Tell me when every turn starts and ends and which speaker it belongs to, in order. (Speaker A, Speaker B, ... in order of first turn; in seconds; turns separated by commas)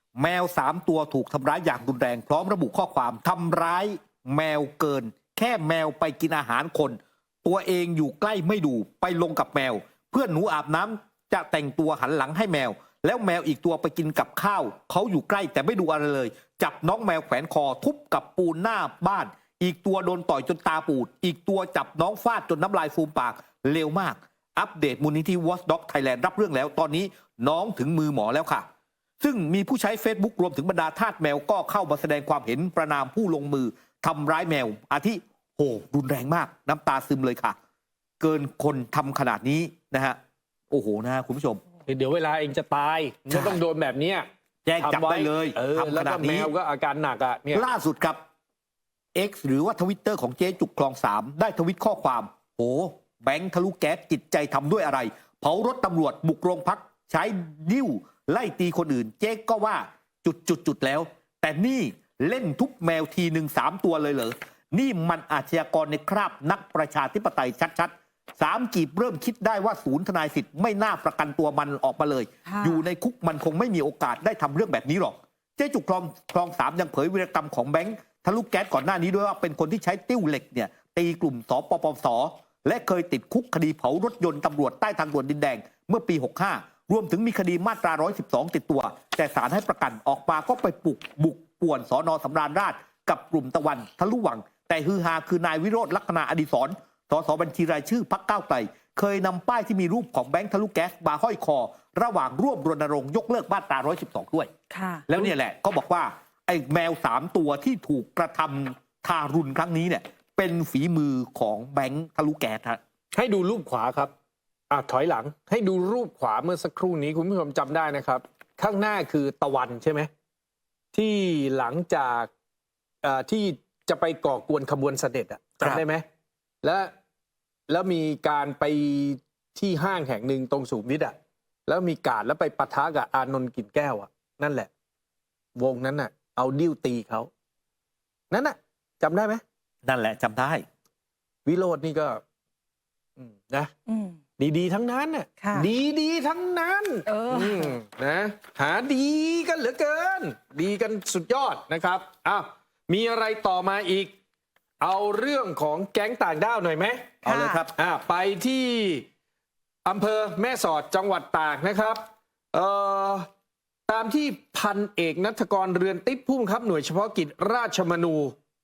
Speaker A: 0.2-28.6, Speaker A: 29.2-37.6, Speaker A: 38.2-40.2, Speaker A: 40.7-41.6, Speaker B: 41.9-44.3, Speaker A: 43.3-43.6, Speaker A: 44.7-46.5, Speaker B: 44.8-47.6, Speaker A: 47.5-48.2, Speaker A: 49.1-104.5, Speaker C: 72.5-72.8, Speaker C: 104.7-105.1, Speaker A: 105.1-112.8, Speaker B: 113.1-114.1, Speaker B: 114.7-120.1, Speaker B: 120.9-122.3, Speaker B: 123.0-126.0, Speaker B: 126.6-126.9, Speaker B: 127.7-131.2, Speaker B: 131.7-134.7, Speaker B: 135.6-137.3, Speaker B: 138.3-139.4, Speaker A: 139.9-140.7, Speaker B: 141.5-142.2, Speaker B: 143.2-143.7, Speaker C: 143.9-144.2, Speaker B: 144.4-154.1, Speaker C: 145.4-145.7, Speaker C: 147.1-147.8, Speaker B: 154.8-157.2, Speaker C: 157.2-157.6, Speaker A: 157.2-157.7, Speaker B: 157.8-159.1, Speaker B: 159.8-162.0, Speaker B: 162.5-163.3, Speaker B: 163.9-168.3